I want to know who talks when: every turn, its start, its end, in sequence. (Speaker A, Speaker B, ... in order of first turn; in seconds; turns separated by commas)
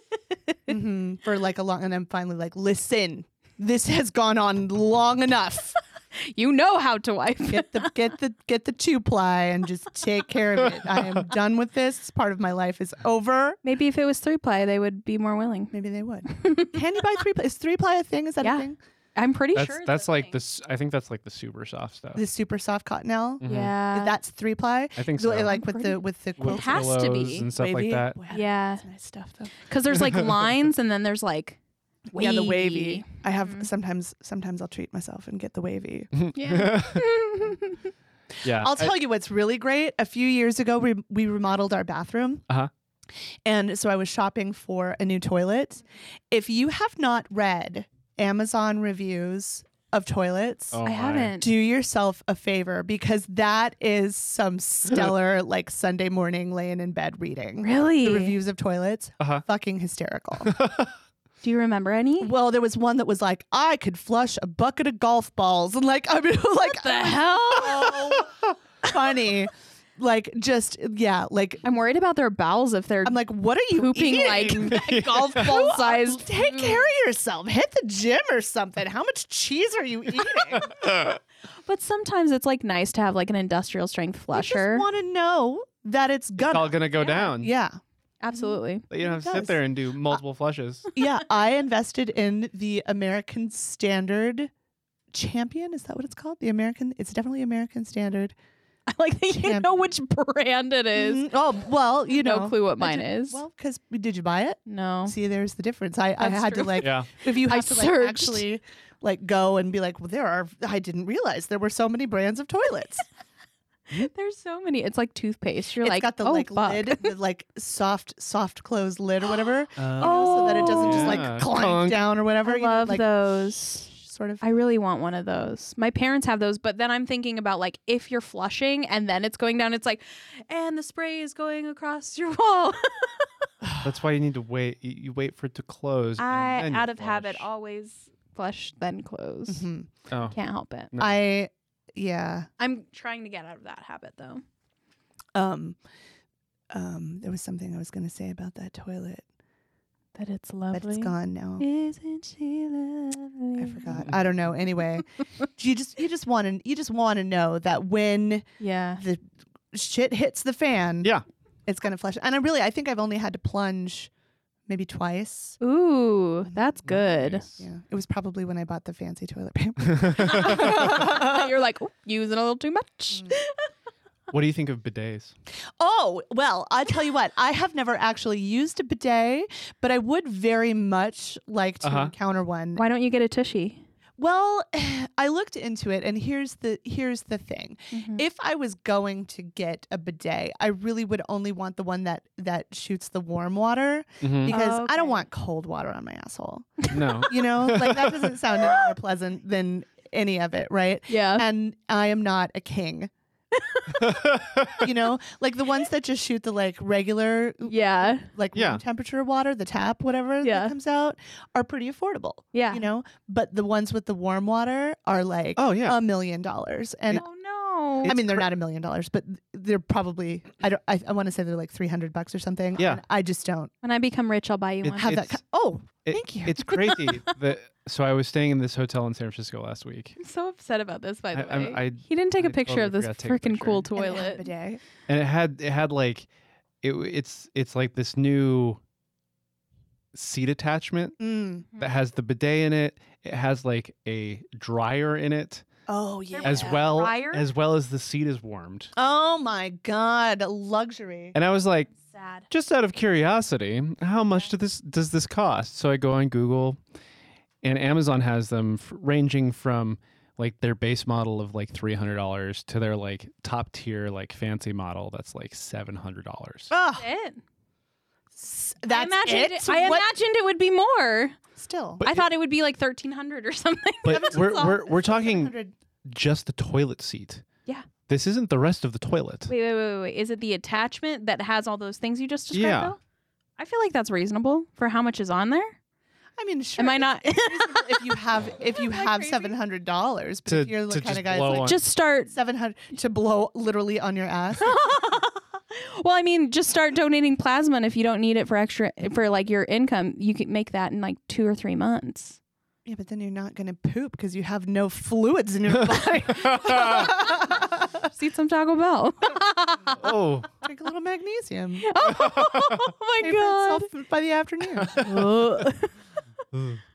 Speaker A: 0.7-5.8, Speaker B: 6.2-7.9, Speaker A: 7.5-13.6, Speaker B: 13.6-15.7, Speaker A: 15.7-18.8, Speaker B: 16.3-16.8, Speaker B: 18.4-20.4, Speaker C: 19.5-22.2, Speaker A: 22.1-29.5, Speaker C: 23.4-23.7, Speaker B: 23.4-24.1, Speaker C: 25.0-25.6, Speaker B: 25.5-27.5, Speaker C: 26.4-28.2, Speaker B: 28.3-28.9, Speaker B: 29.5-31.6, Speaker C: 30.0-30.3, Speaker A: 32.1-36.1, Speaker B: 32.1-33.7, Speaker C: 36.1-37.2, Speaker B: 36.3-37.8, Speaker C: 38.4-38.9, Speaker A: 38.5-42.4, Speaker A: 43.4-50.8, Speaker C: 50.7-51.4, Speaker B: 50.8-51.5, Speaker A: 51.4-60.5, Speaker B: 57.6-58.4, Speaker C: 60.4-60.9, Speaker B: 61.4-62.3, Speaker A: 62.2-71.6, Speaker B: 66.7-68.2, Speaker B: 71.6-76.9, Speaker A: 73.0-80.8, Speaker C: 74.6-75.6, Speaker C: 80.6-81.2, Speaker B: 81.7-84.8, Speaker A: 84.3-87.8, Speaker C: 86.4-87.5, Speaker B: 87.0-87.3, Speaker B: 88.2-88.9, Speaker C: 88.9-90.9, Speaker A: 89.0-90.2, Speaker A: 90.9-94.5, Speaker A: 95.1-98.3, Speaker B: 98.9-101.3, Speaker A: 99.3-99.7, Speaker A: 100.9-113.0, Speaker B: 102.1-103.4, Speaker B: 104.7-105.1, Speaker B: 106.2-108.4, Speaker C: 106.8-107.1, Speaker B: 114.0-117.1, Speaker A: 115.8-124.4, Speaker C: 119.8-122.0, Speaker B: 120.0-121.3, Speaker B: 122.4-123.9, Speaker B: 124.4-133.3, Speaker A: 133.6-133.9, Speaker C: 133.8-137.5, Speaker B: 136.2-139.7, Speaker A: 139.5-139.9, Speaker C: 140.1-140.3, Speaker B: 140.3-140.9, Speaker A: 141.0-142.5, Speaker B: 142.6-144.4, Speaker A: 145.3-145.8, Speaker A: 146.7-149.2, Speaker B: 150.2-154.0, Speaker A: 150.7-151.6, Speaker A: 153.6-158.4, Speaker B: 158.6-159.0, Speaker A: 159.0-161.1, Speaker A: 161.7-164.1, Speaker A: 164.7-165.6, Speaker B: 165.6-167.4, Speaker A: 166.4-166.7, Speaker C: 166.9-167.6, Speaker A: 167.6-171.5, Speaker C: 169.9-170.3, Speaker B: 170.2-173.7, Speaker C: 174.3-175.3, Speaker A: 175.8-182.8, Speaker C: 181.8-182.1, Speaker B: 182.8-183.8, Speaker A: 184.2-203.1, Speaker B: 187.9-188.2, Speaker C: 194.2-194.5, Speaker B: 194.5-195.2, Speaker C: 196.9-198.4, Speaker B: 201.1-201.4, Speaker B: 203.6-204.1, Speaker C: 204.0-204.9, Speaker A: 204.8-217.2, Speaker B: 207.6-208.3, Speaker C: 208.5-208.8, Speaker B: 210.4-210.7, Speaker B: 212.5-212.8, Speaker C: 215.6-216.0, Speaker B: 217.1-218.1, Speaker C: 218.0-218.4, Speaker A: 218.0-223.7, Speaker B: 223.8-225.2, Speaker C: 224.8-225.4, Speaker A: 225.0-227.0, Speaker C: 226.0-230.2, Speaker B: 226.7-227.3, Speaker B: 230.2-234.5, Speaker C: 231.3-233.9, Speaker A: 233.9-234.8, Speaker C: 235.1-236.3, Speaker C: 236.8-238.8, Speaker C: 240.1-241.2, Speaker A: 241.2-241.7, Speaker C: 241.8-245.6, Speaker A: 245.9-246.9, Speaker B: 246.3-247.5, Speaker C: 246.4-248.9, Speaker A: 248.9-251.3, Speaker C: 251.3-251.9, Speaker B: 251.9-252.5, Speaker C: 252.5-256.8, Speaker C: 257.6-266.7, Speaker A: 266.7-267.1, Speaker B: 266.9-267.4, Speaker A: 268.3-270.1, Speaker B: 268.9-271.4, Speaker A: 271.6-272.0, Speaker C: 272.0-272.3, Speaker B: 272.0-274.7, Speaker C: 274.0-275.5, Speaker A: 274.1-275.7, Speaker C: 276.0-277.4, Speaker C: 278.1-279.5, Speaker B: 279.5-283.0, Speaker C: 282.5-282.9, Speaker B: 283.6-285.7, Speaker A: 286.4-294.7, Speaker B: 286.8-289.6, Speaker C: 290.5-291.8, Speaker B: 291.6-292.3, Speaker B: 294.6-302.4, Speaker A: 302.8-308.1, Speaker C: 305.7-307.1, Speaker B: 308.1-310.2, Speaker C: 310.0-310.5, Speaker A: 310.6-311.9, Speaker B: 311.8-313.9, Speaker C: 312.2-312.8, Speaker A: 313.2-315.1, Speaker C: 314.8-315.2, Speaker B: 314.9-315.9, Speaker C: 316.5-316.8